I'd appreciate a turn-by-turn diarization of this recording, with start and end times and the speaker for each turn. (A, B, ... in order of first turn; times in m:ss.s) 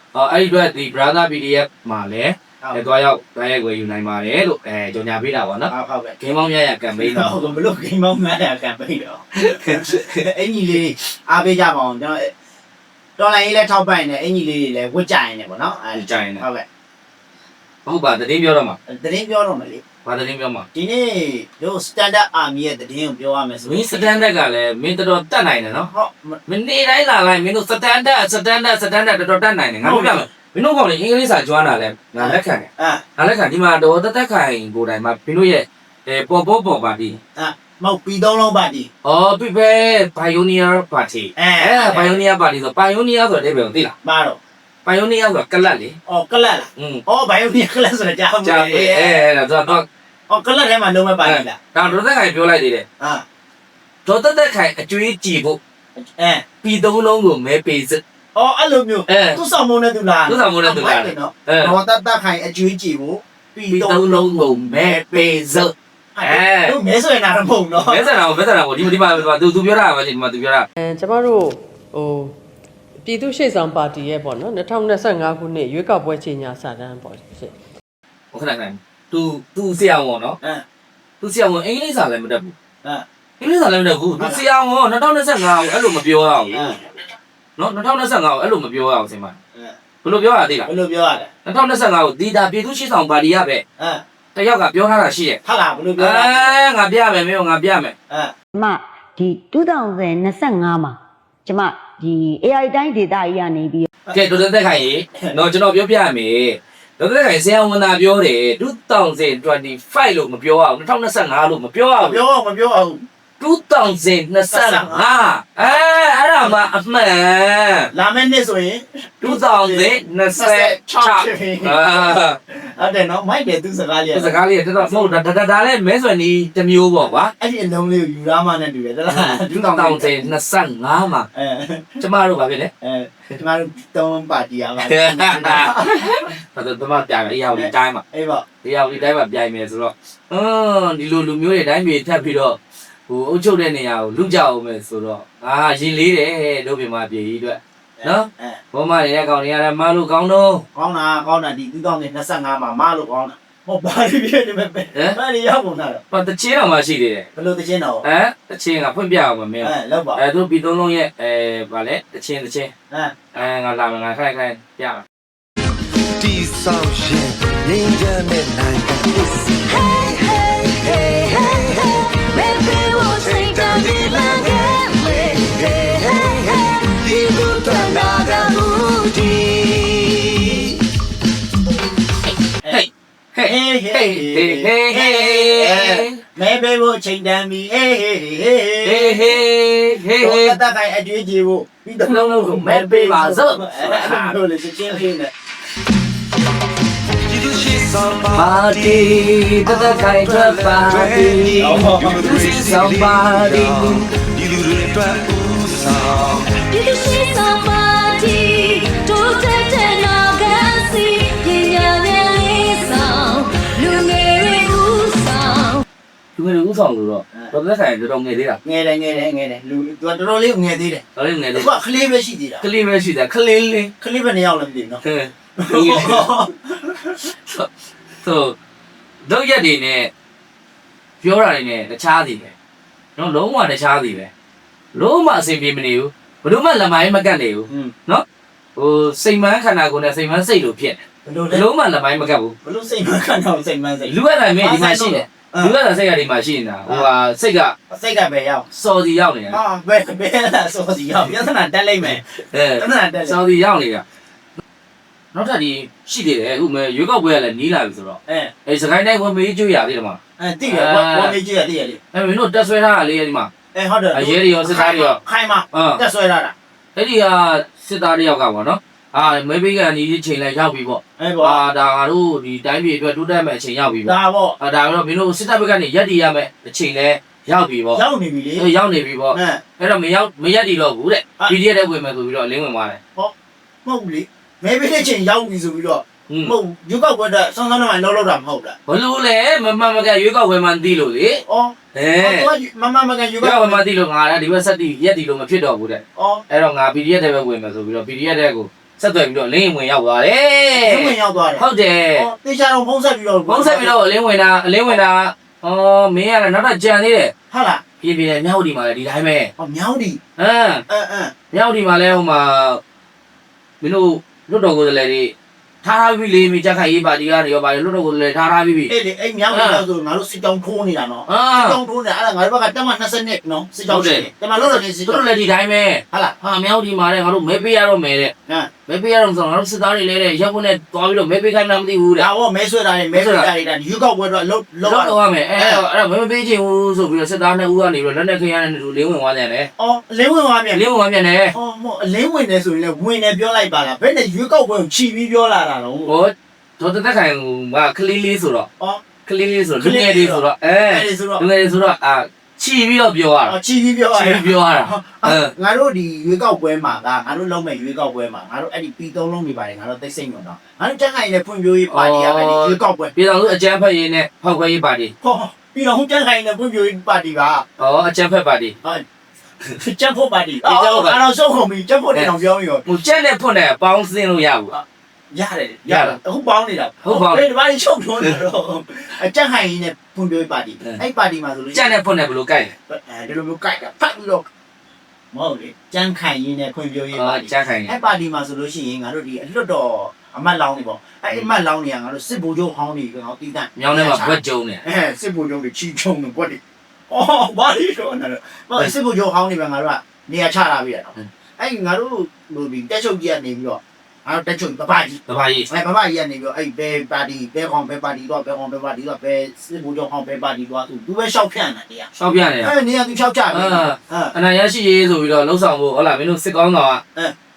0:00.1-0:07.4 A
0:05.7-0:06.2 B
0:06.9-0:12.3 B
0:09.4-0:10.2 A
0:13.2-0:16.7 B
0:15.9-0:16.4 A
0:17.9-0:18.8 A
0:18.9-0:19.8 B
0:20.0-0:20.7 A
0:20.7-0:24.2 B
0:23.7-0:25.9 A
0:25.9-0:26.4 B
0:26.5-0:37.2 A
0:29.8-0:30.3 B
0:32.2-0:33.0 B
0:37.4-0:38.9 B
0:39.0-0:44.0 A
0:41.4-0:42.2 B
0:44.0-0:44.4 B
0:44.8-0:46.0 A
0:46.1-0:49.3 B
0:46.8-0:47.0 A
0:48.4-0:49.9 A
0:50.3-0:51.6 B
0:51.2-0:52.9 A
0:53.0-0:53.2 B
0:54.1-0:55.6 A
0:56.0-0:56.4 B
0:56.6-0:58.0 A
0:58.4-1:08.1 B
0:59.1-0:59.4 A
1:00.3-1:01.7 A
1:03.7-1:05.7 A
1:06.2-1:06.8 A
1:07.8-1:10.7 A
1:10.8-1:12.4 C
1:13.0-1:17.6 C
1:18.3-1:20.4 A
1:21.2-1:22.6 A
1:23.4-1:26.7 A
1:24.2-1:24.4 B
1:26.5-1:26.8 B
1:27.6-1:29.4 A
1:30.0-1:30.7 A
1:30.7-1:31.3 B
1:31.4-1:33.6 A
1:33.8-1:34.0 B
1:34.4-1:35.4 A
1:35.4-1:36.6 B
1:36.0-1:37.9 A
1:38.6-1:43.9 D
1:44.1-1:52.2 A
1:52.0-1:53.0 B
1:53.4-1:57.9 A
1:54.5-1:55.2 B
1:57.9-2:05.1 B
1:59.2-2:02.4 A
2:04.1-2:07.3 A
2:07.0-2:10.3 B
2:09.1-2:11.3 A
2:11.3-2:11.9 B
2:12.0-2:12.7 A
2:12.8-2:16.3 B
2:14.8-2:18.0 A
2:17.5-2:18.5 B
2:18.6-2:30.6 A
2:28.0-2:28.6 B
2:30.8-2:36.0 B
2:34.9-2:35.2 A
2:36.1-2:37.3 A
2:37.4-2:38.0 B
2:38.0-2:42.7 A
2:39.6-2:40.2 B
2:42.9-2:43.4 B
2:43.4-2:45.1 A
2:46.2-3:00.8 E
2:49.7-3:00.6 F
3:02.7-3:06.2 A
3:03.4-3:09.4 B
3:08.8-3:10.6 A
3:10.2-3:15.3 B
3:12.0-3:14.4 A
3:17.3-3:26.6 E
3:18.4-3:24.0 A
3:21.6-3:22.1 B
3:26.7-3:35.8 F
3:36.4-3:38.6 A
3:38.6-3:42.6 B
3:41.2-3:41.7 A
3:42.6-3:43.9 A
3:44.0-3:45.0 B
3:45.0-3:46.3 A
3:45.6-3:47.2 B
3:48.2-3:48.6 A
3:49.2-3:50.1 A
3:51.2-3:52.5 A
3:53.2-3:54.3 A
3:54.9-3:58.2 A
3:57.7-3:57.9 B
3:58.8-4:02.6 A
4:01.2-4:01.7 B
4:02.6-4:05.8 B
4:04.1-4:07.8 A
4:07.9-4:08.7 B
4:08.7-4:09.6 A
4:09.5-4:12.2 B
4:12.5-4:14.0 A
4:12.8-4:13.4 B
4:15.3-4:21.4 A
4:18.3-4:18.5 B
4:20.4-4:22.0 B
4:22.1-4:23.5 A
4:23.7-4:26.6 B
4:24.1-4:25.2 A
4:25.7-4:26.0 A
4:27.0-4:38.0 A
4:31.2-4:31.6 B
4:34.0-4:34.6 B
4:37.9-4:38.7 B
4:38.6-4:43.0 A
4:39.3-4:39.6 B
4:43.8-4:48.8 B
4:46.3-4:46.6 A
4:48.9-4:51.4 A
4:51.5-4:53.8 B
4:51.9-4:52.5 A
4:53.4-5:02.3 A
4:56.2-4:56.4 B
5:00.7-5:04.0 B
5:03.5-5:07.3 A
5:07.5-5:07.8 B
5:08.0-5:09.5 A
5:09.6-5:10.2 B
5:10.4-5:10.8 A
5:10.9-5:11.3 B
5:11.5-5:12.8 A
5:13.8-5:18.9 A
5:18.9-5:25.3 B
5:19.5-5:19.8 A
5:21.3-5:21.8 A
5:23.9-5:28.3 A
5:28.9-5:32.3 A
5:32.2-5:35.8 B
5:33.1-5:33.5 A
5:34.8-5:39.7 A
5:39.8-5:40.9 B
5:40.7-5:41.6 A
5:41.5-5:46.1 B
5:46.1-5:48.7 A
5:49.3-5:53.6 A
5:49.8-5:51.5 B
5:53.4-6:03.2 B
5:54.1-5:55.5 A
6:01.9-6:05.1 A
6:05.2-6:07.7 B
6:07.8-6:08.8 A
6:09.8-6:12.9 B
6:10.6-6:11.2 A
6:12.9-6:14.8 A
6:14.7-6:21.9 B
6:15.9-6:16.2 A
6:17.0-6:17.5 A
6:21.7-6:22.7 A
6:22.9-6:24.5 B
6:25.3-6:54.3 B
6:27.1-6:28.0 A
6:33.8-6:34.8 A
6:45.3-6:45.7 A
6:52.2-6:52.8 A
6:53.5-6:57.0 A